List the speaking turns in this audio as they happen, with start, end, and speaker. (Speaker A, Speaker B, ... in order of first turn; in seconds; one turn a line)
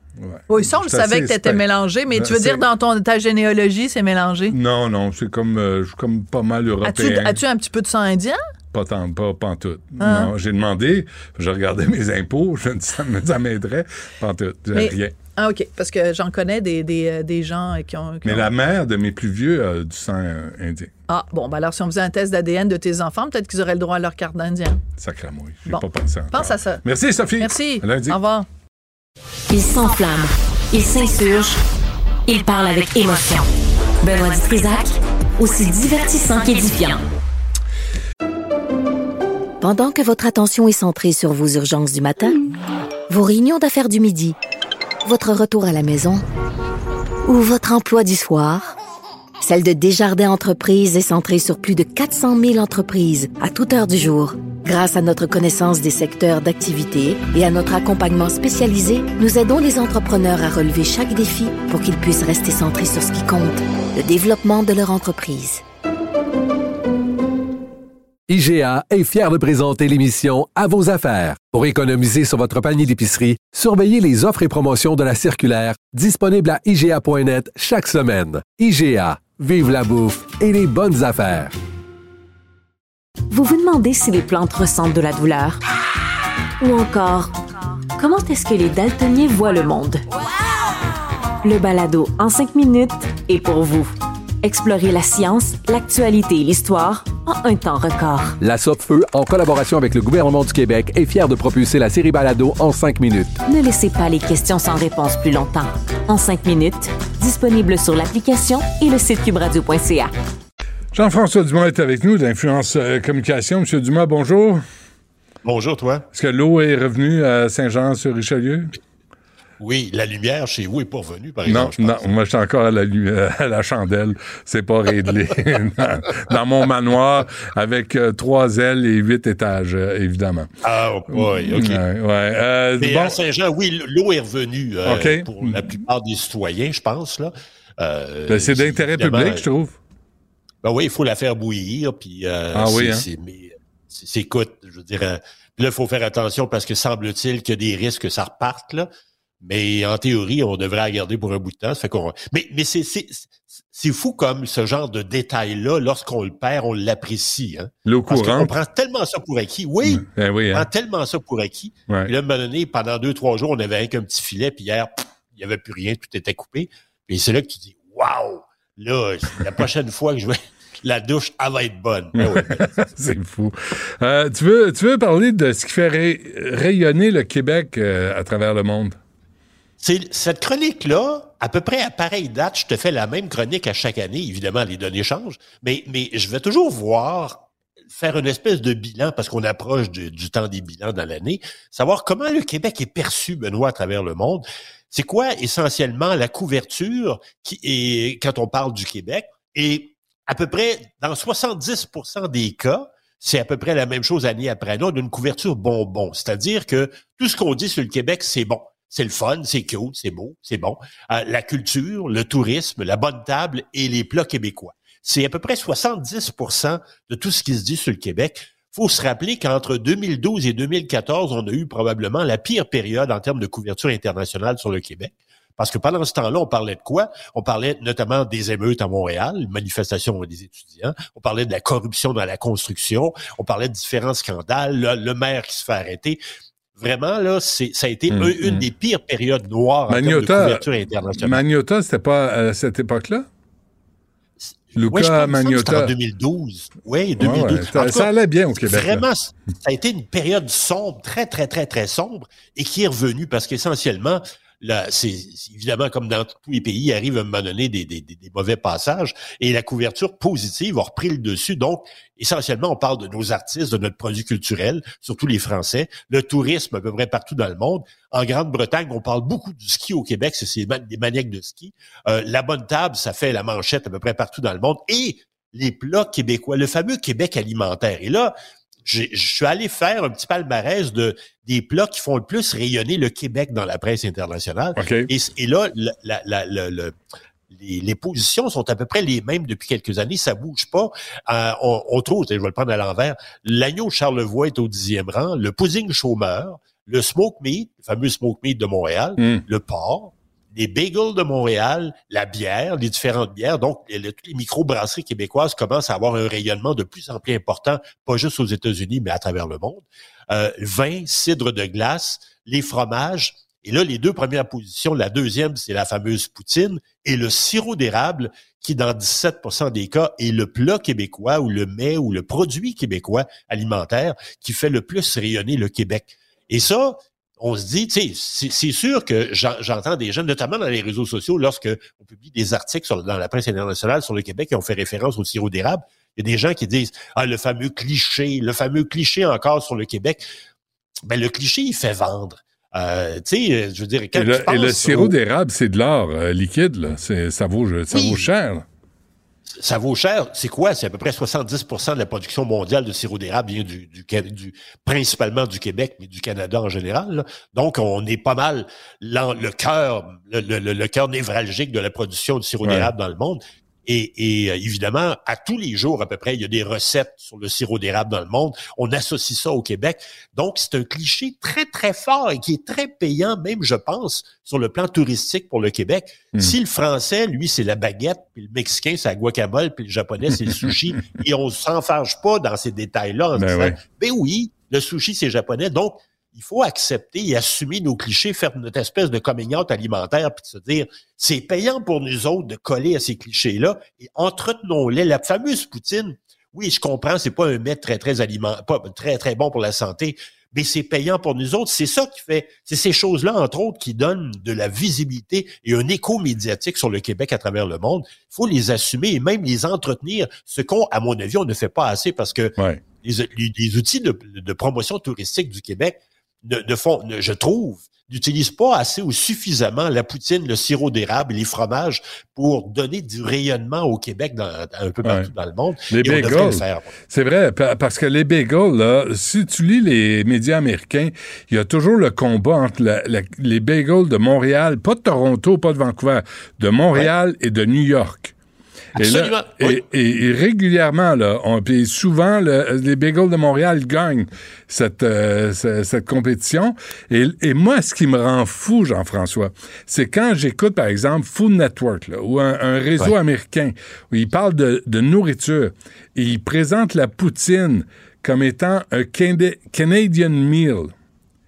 Speaker A: 0.2-2.6
Speaker B: 0.5-4.5
Speaker A: 4.5-7.4
Speaker B: 6.8-8.4
Speaker A: 8.7-15.1
Speaker B: 10.0-10.3
Speaker B: 14.7-18.5
Speaker A: 18.2-20.9
Speaker B: 21.1-24.8
Speaker A: 25.0-28.2
Speaker B: 25.7-26.8
Speaker B: 27.4-28.4
Speaker C: 29.5-31.6
Speaker C: 32.3-33.5
Speaker C: 34.0-37.0
Speaker D: 39.6-42.5
Speaker D: 43.1-44.4
Speaker D: 45.0-46.2
Speaker D: 47.2-48.7
Speaker D: 49.4-65.6
Speaker E: 68.3-81.5
Speaker C: 83.3-85.6
Speaker C: 86.6-87.3
Speaker C: 88.0-90.0
Speaker C: 91.4-98.4
Speaker E: 98.4-103.4
Speaker C: 103.4-110.1
Speaker A: 110.9-114.6
Speaker F: 115.4-116.0
Speaker A: 116.1-118.7
Speaker F: 119.6-122.1
Speaker A: 121.5-130.5
Speaker F: 130.6-131.8
Speaker A: 131.1-133.2
Speaker F: 132.8-139.4
Speaker A: 134.8-135.7
Speaker A: 138.3-139.8
Speaker F: 140.6-148.9
Speaker A: 142.5-143.0
Speaker F: 149.4-172.6
Speaker A: 157.9-158.5
Speaker A: 159.9-160.7
Speaker A: 172.2-179.0
Speaker F: 179.8-236.2
Speaker F: 236.8-241.4
Speaker A: 238.1-238.6
Speaker A: 239.9-240.6
Speaker A: 241.2-243.2
Speaker F: 244.4-286.9
Speaker A: 244.8-245.9
Speaker A: 247.2-249.0
Speaker A: 284.8-285.1
Speaker F: 287.5-340.2
Speaker F: 341.1-345.1
Speaker A: 344.1-348.6
Speaker F: 347.9-348.3
Speaker F: 349.6-426.9
Speaker A: 362.6-362.9
Speaker A: 383.4-383.7
Speaker A: 425.9-438.3
Speaker F: 438.9-439.8
Speaker A: 439.0-460.9